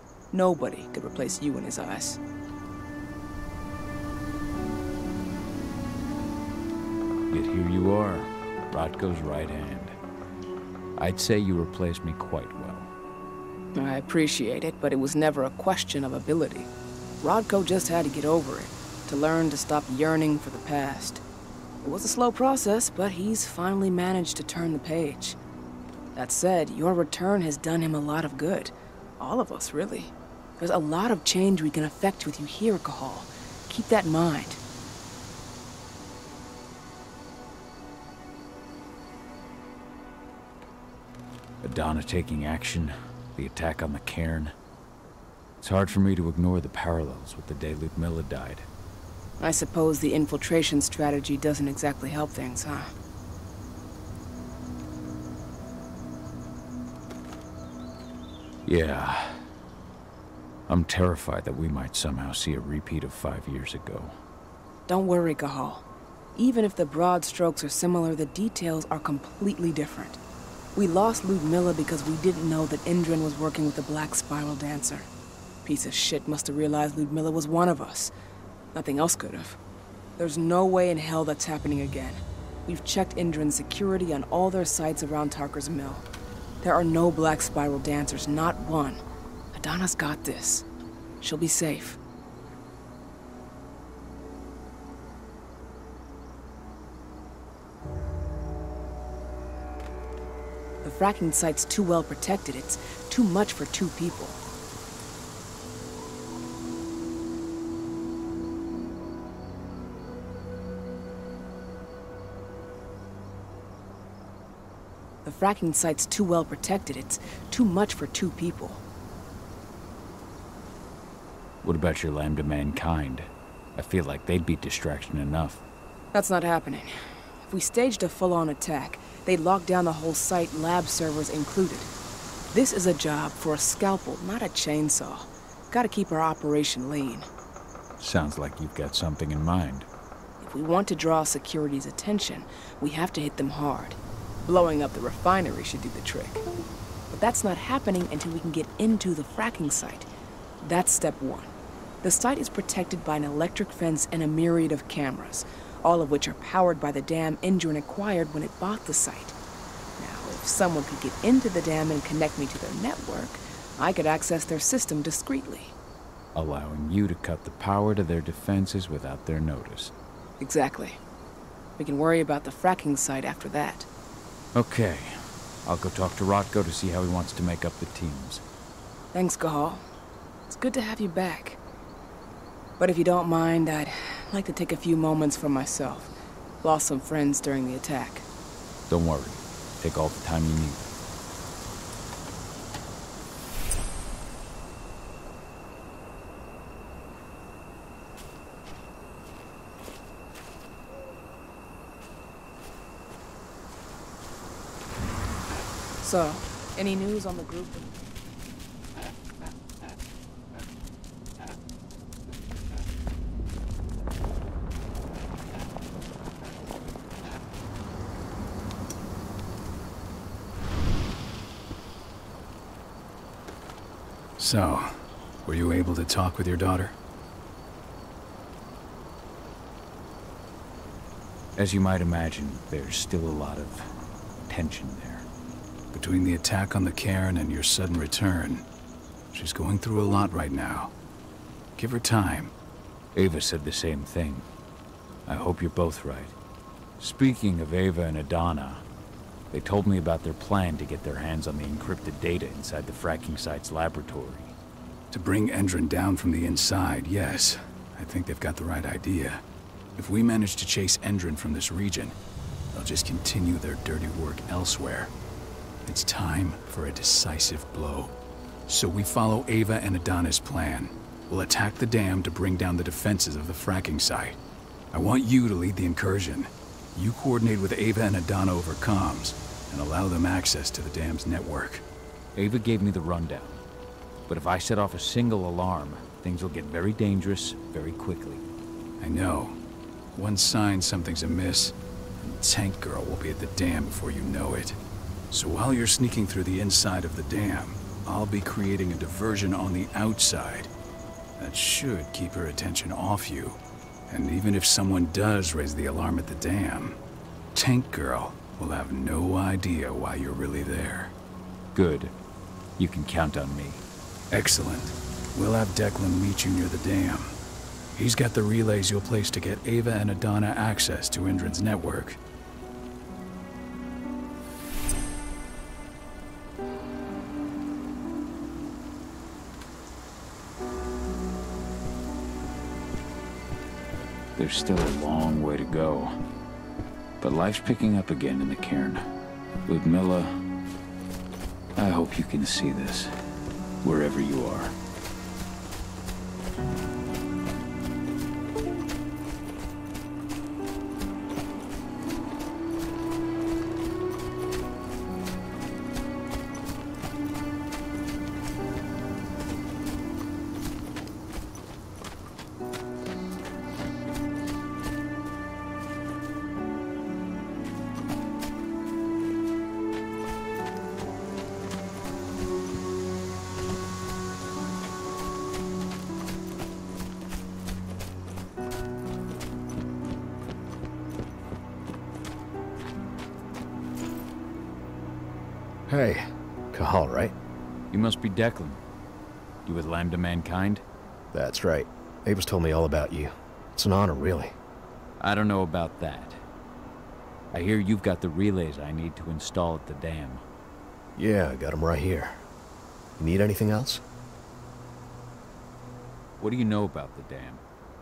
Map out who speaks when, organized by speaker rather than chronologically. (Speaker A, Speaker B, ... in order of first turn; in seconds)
Speaker A: 0.3-2.2, 13.8-16.7, 17.2-21.2, 21.8-25.4, 26.1-34.6, 49.4-52.9, 64.9-65.8, 66.3-70.2, 70.8-75.1, 75.7-78.1, 78.7-79.6, 80.2-86.0, 86.6-90.7, 91.2-92.0, 100.8-104.4, 115.2-118.8, 126.1-127.0, 127.5-131.9, 132.5-137.3, 140.4-146.4, 147.1-150.1, 150.6-151.5, 152.0-159.3, 160.0-165.8, 170.4-171.0, 171.8-173.9, 179.1-179.8, 180.5-181.6, 182.8-188.3, 206.0-207.9
Speaker B: 7.3-10.0, 11.0-12.9, 41.6-44.5, 45.6-48.7, 58.7-59.5, 60.7-64.2, 121.6-125.6, 138.0-139.9, 166.3-169.9, 174.6-178.4, 188.9-190.8, 231.6-233.9, 234.5-235.3, 243.2-244.5, 245.3-246.3, 247.0-248.8, 249.5-254.5, 282.4-283.6, 284.3-288.4, 311.8-312.1, 312.8-313.8, 334.4-336.1, 337.2-339.1, 339.7-340.4, 341.8-343.1, 343.8-344.7, 387.9-388.8, 389.7-390.8, 395.2-396.4, 397.5-400.4, 406.4-407.6
Speaker C: 224.4-226.9, 235.9-238.6, 239.3-240.9, 241.8-242.5, 255.1-259.4, 260.0-262.2, 262.7-265.1, 265.9-268.1, 268.7-274.4, 274.9-281.8, 289.0-289.6, 290.1-294.8, 295.3-300.7, 301.4-303.6, 304.1-307.0, 307.5-311.1, 314.3-317.3, 317.9-322.2
Speaker D: 385.9-387.3, 391.3-394.6, 401.2-402.4, 403.2-404.0